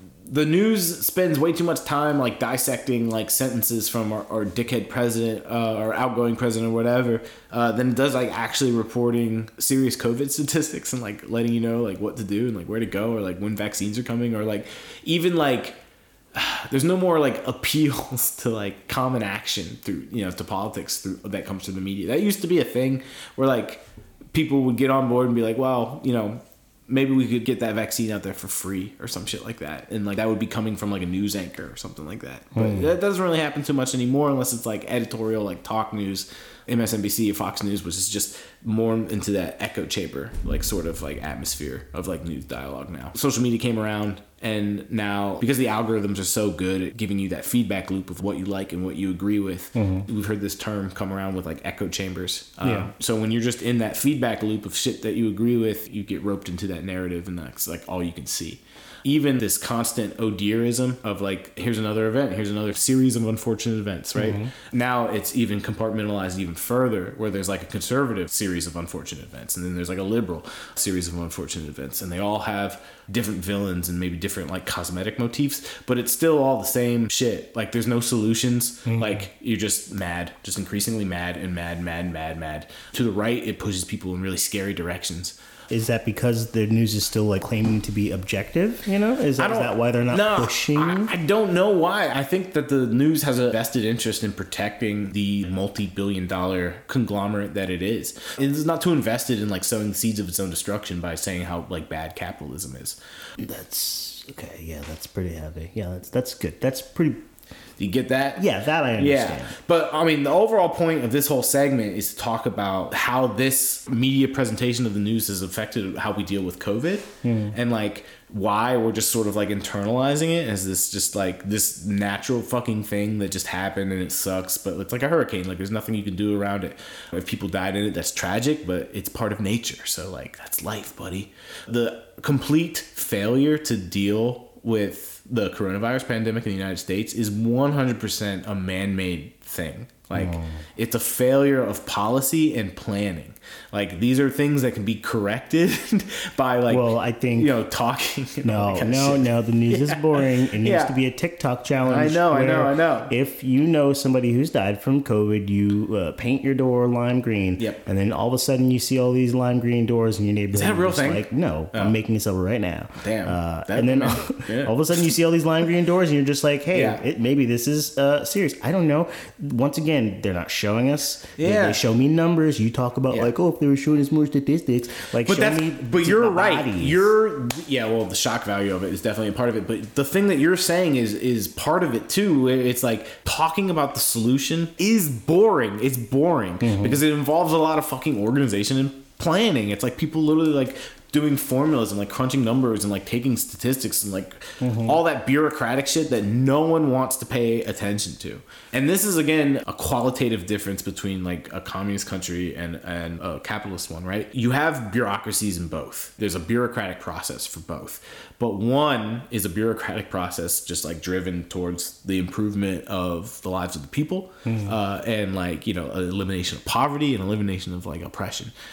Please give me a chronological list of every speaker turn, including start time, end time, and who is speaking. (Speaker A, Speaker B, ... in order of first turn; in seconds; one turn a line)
Speaker A: 0.3-15.8
Speaker A: 16.3-85.3
Speaker B: 32.5-32.9
Speaker B: 49.7-50.0
Speaker B: 52.6-52.9
Speaker B: 64.1-64.5
Speaker B: 78.9-79.2
Speaker B: 85.7-91.1
Speaker A: 89.4-103.0
Speaker B: 103.4-107.2
Speaker A: 107.8-108.4
Speaker B: 108.3-109.5
Speaker A: 109.0-151.0
Speaker B: 117.2-117.5
Speaker B: 140.1-140.6
Speaker B: 146.7-147.5
Speaker B: 148.4-177.1
Speaker A: 151.8-153.1
Speaker A: 157.6-157.8
Speaker A: 160.5-161.9
Speaker A: 163.0-165.0
Speaker A: 166.7-167.0
Speaker A: 171.4-171.8
Speaker A: 175.2-218.5
Speaker B: 186.6-187.0
Speaker B: 194.6-195.0
Speaker B: 214.4-214.8